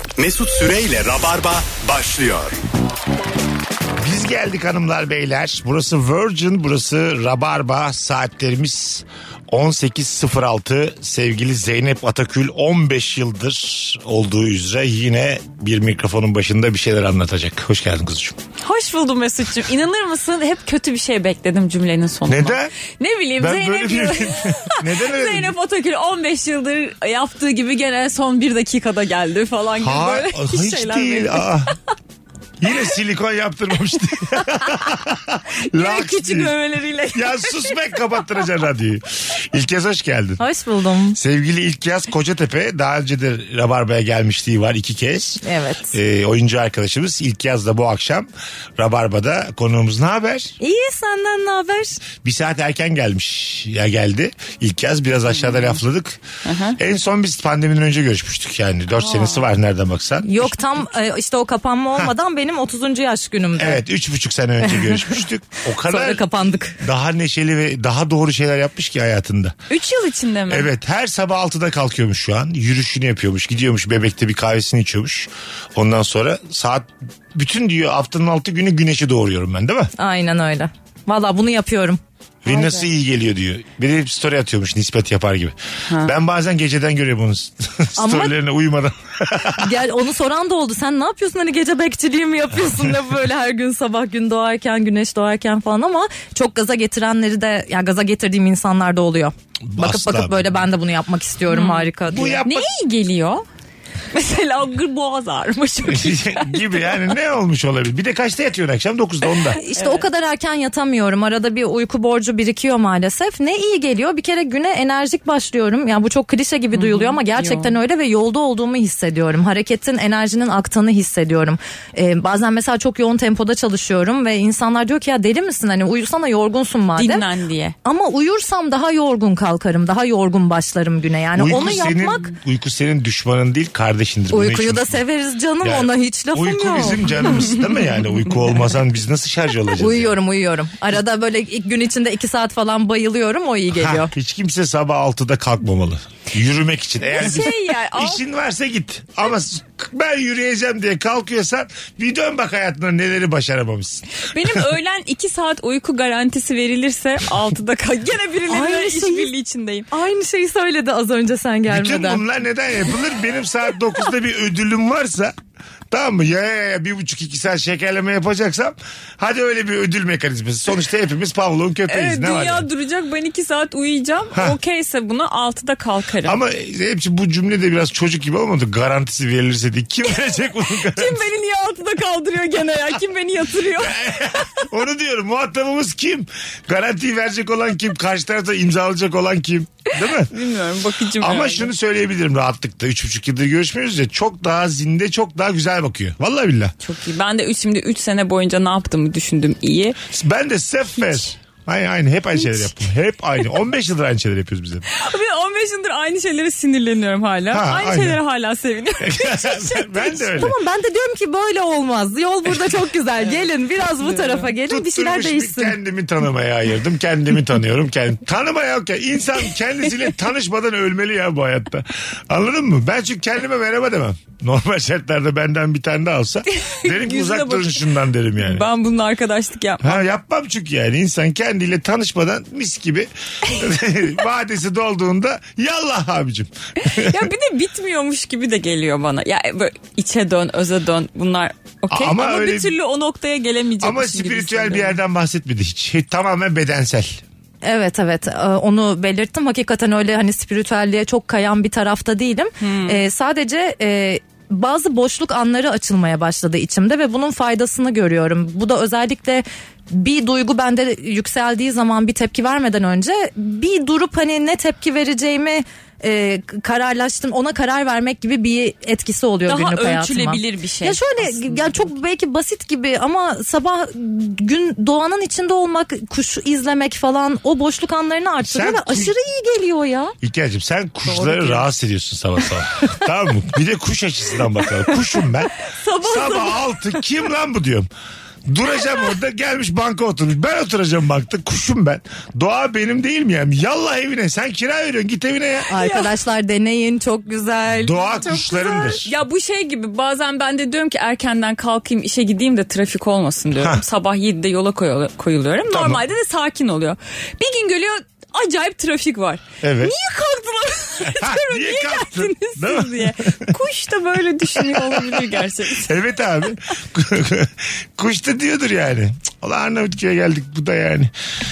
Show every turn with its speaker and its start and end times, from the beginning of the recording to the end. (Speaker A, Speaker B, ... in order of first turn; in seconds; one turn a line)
Speaker A: 0.2-2.6
Speaker B: 4.0-18.4
Speaker C: 18.6-31.7
Speaker B: 22.3-22.7
Speaker B: 23.4-25.6
Speaker B: 29.8-31.8
Speaker B: 32.6-36.5
Speaker C: 34.4-34.9
Speaker C: 35.6-37.8
Speaker B: 37.1-40.4
Speaker D: 40.4-41.2
Speaker B: 41.1-45.4
Speaker D: 45.4-46.0
Speaker B: 45.9-50.5
Speaker D: 50.6-52.0
Speaker B: 52.2-56.2
Speaker C: 56.5-56.8
Speaker B: 56.8-60.5
Speaker C: 59.0-59.4
Speaker D: 60.2-63.8
Speaker B: 63.6-66.2
Speaker D: 64.7-65.2
Speaker D: 65.8-66.8
Speaker B: 66.8-69.5
Speaker C: 69.7-70.7
Speaker B: 70.5-79.9
Speaker D: 80.0-82.0
Speaker B: 82.5-89.7
Speaker D: 88.0-88.4
Speaker D: 89.6-102.4
Speaker B: 99.6-100.6
Speaker C: 101.5-101.9
Speaker B: 102.1-102.7
Speaker C: 102.4-103.4
Speaker C: 104.1-106.9
Speaker B: 105.9-109.6
Speaker D: 109.6-127.2
Speaker C: 109.7-110.1
Speaker C: 116.7-117.8
Speaker C: 127.0-127.8
Speaker D: 127.8-132.3
Speaker B: 131.3-135.0
Speaker D: 134.3-137.3
Speaker B: 135.6-140.2
Speaker D: 139.8-144.1
Speaker B: 143.8-154.6
Speaker C: 147.1-148.2
Speaker C: 154.2-159.9
Speaker D: 158.5-159.3
Speaker D: 159.9-162.2
Speaker B: 161.7-165.3
Speaker B: 165.9-172.7
Speaker C: 171.9-176.4
Speaker B: 176.2-181.2
Speaker C: 180.8-184.7
Speaker B: 183.8-190.3
Speaker C: 190.0-191.7
Speaker B: 191.2-196.8
Speaker C: 196.8-200.0
Speaker B: 200.1-204.8
Speaker C: 204.9-210.4
Speaker B: 207.5-208.2
Speaker B: 209.0-210.6
Speaker D: 210.3-215.8
Speaker C: 214.0-214.5
Speaker B: 214.7-228.7
Speaker C: 226.5-230.0
Speaker B: 229.8-237.3
Speaker C: 236.8-245.0
Speaker B: 241.9-242.7
Speaker B: 243.8-247.2
Speaker D: 247.6-280.1
Speaker C: 252.6-253.0
Speaker C: 269.5-271.9
Speaker B: 278.4-279.1
Speaker B: 280.2-287.9
Speaker C: 281.1-281.6
Speaker C: 285.7-287.0
Speaker B: 288.5-295.7
Speaker C: 295.7-296.1
Speaker D: 295.7-298.9
Speaker B: 297.7-299.1
Speaker C: 298.8-316.0
Speaker B: 303.6-303.8
Speaker B: 305.7-306.0
Speaker B: 309.6-309.9
Speaker B: 311.0-313.5
Speaker B: 314.6-315.3
Speaker B: 315.8-321.1